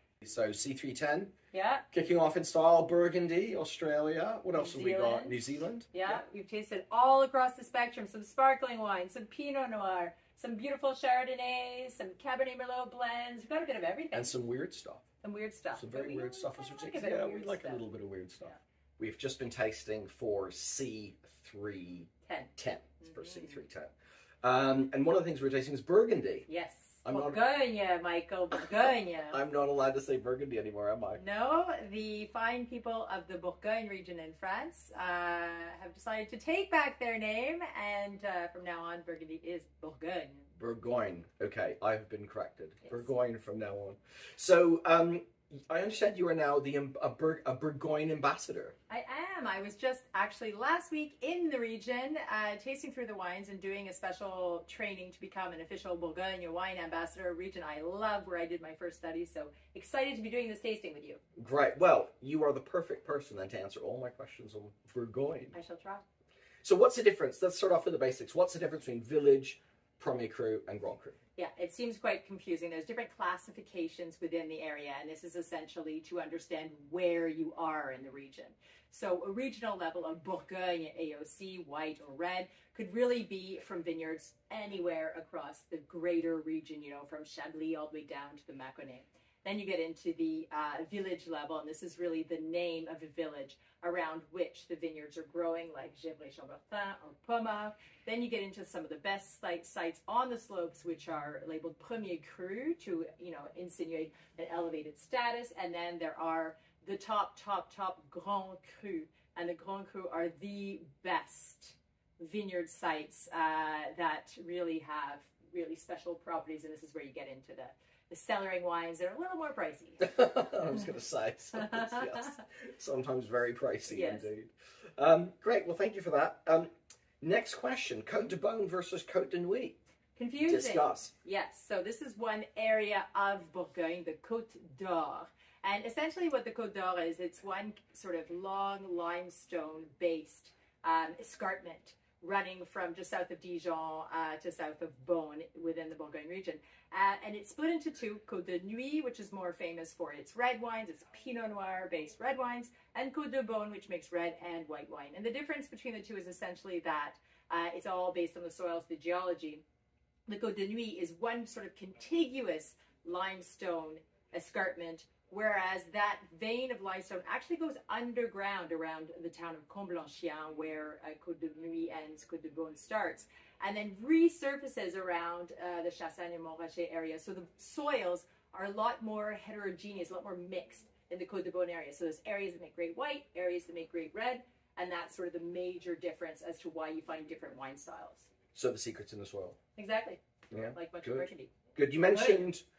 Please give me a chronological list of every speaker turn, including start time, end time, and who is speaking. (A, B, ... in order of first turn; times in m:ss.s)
0:00.2-0:01.3 A
0:01.5-0:01.8 B
0:01.9-0:06.2 A
0:04.5-0:05.4 B
0:05.9-0:14.4 B
0:14.1-0:15.0 A
0:15.2-0:17.8 B
0:15.7-0:26.5 A
0:22.2-0:23.6 B
0:26.5-0:29.4 B
0:27.0-0:27.4 A
0:29.3-0:31.2 A
0:31.1-0:40.5 B
0:40.6-0:48.7 A
0:48.9-1:01.2 B
1:01.4-1:05.5 A
1:05.5-1:06.0 B
1:06.6-1:11.2 A
1:11.4-2:00.1 B
2:00.0-2:06.7 A
2:01.5-2:02.4 B
2:03.9-2:04.3 B
2:07.2-2:09.8 A
2:10.2-2:39.6 B
2:10.4-2:11.1 A
2:40.3-3:08.3 B
3:08.5-3:09.6 A
3:09.8-3:10.2 B
3:10.5-3:12.6 A
3:10.7-3:11.5 B
3:12.1-3:12.5 B